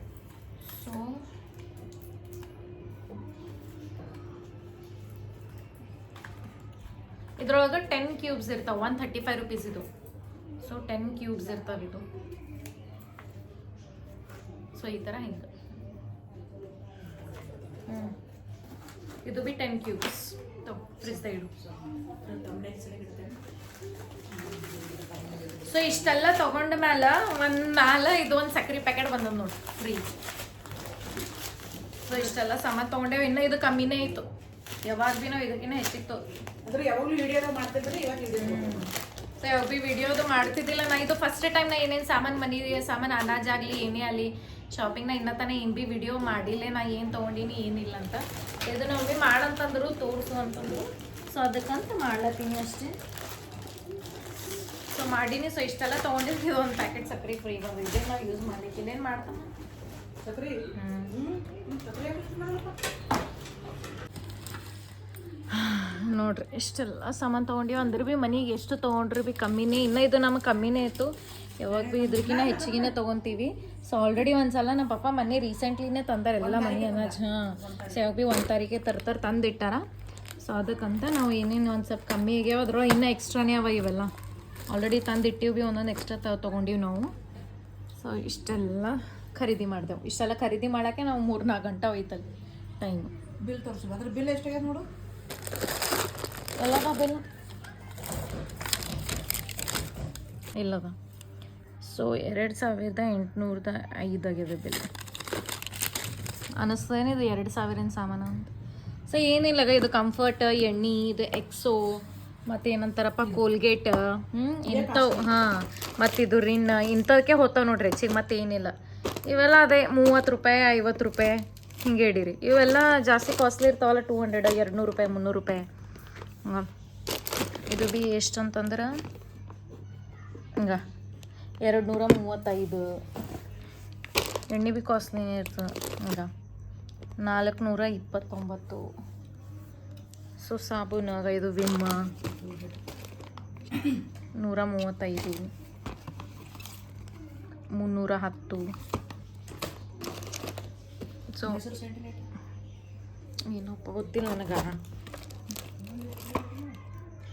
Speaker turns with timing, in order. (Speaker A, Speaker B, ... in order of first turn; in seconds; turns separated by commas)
Speaker A: 0.6-1.2, Speaker A: 7.4-9.9, Speaker A: 10.6-12.1, Speaker A: 14.8-15.5, Speaker B: 17.0-17.5, Speaker A: 17.9-18.1, Speaker A: 19.2-21.5, Speaker B: 21.6-23.4, Speaker B: 24.3-26.0, Speaker A: 25.7-30.1, Speaker A: 32.1-34.3, Speaker A: 34.8-36.2, Speaker B: 36.6-38.9, Speaker A: 38.4-53.0, Speaker A: 54.9-59.5, Speaker B: 60.2-62.8, Speaker A: 60.8-61.1, Speaker A: 65.5-79.8, Speaker B: 71.7-73.0, Speaker B: 76.4-78.0, Speaker A: 80.4-84.1, Speaker A: 84.7-87.1, Speaker A: 88.0-92.2, Speaker A: 92.8-93.1, Speaker B: 93.4-94.9, Speaker A: 96.6-97.2, Speaker A: 100.5-101.0, Speaker A: 101.8-104.9, Speaker A: 106.6-108.5, Speaker A: 109.1-118.7, Speaker B: 114.7-115.3, Speaker A: 119.3-125.7, Speaker A: 127.4-129.0, Speaker A: 131.6-133.0, Speaker A: 134.5-136.3, Speaker A: 137.2-138.9, Speaker A: 140.4-142.1, Speaker B: 142.1-142.8, Speaker A: 144.4-145.5, Speaker A: 147.7-148.7, Speaker A: 151.3-151.6, Speaker B: 151.5-152.3, Speaker A: 153.5-154.8, Speaker B: 155.8-156.7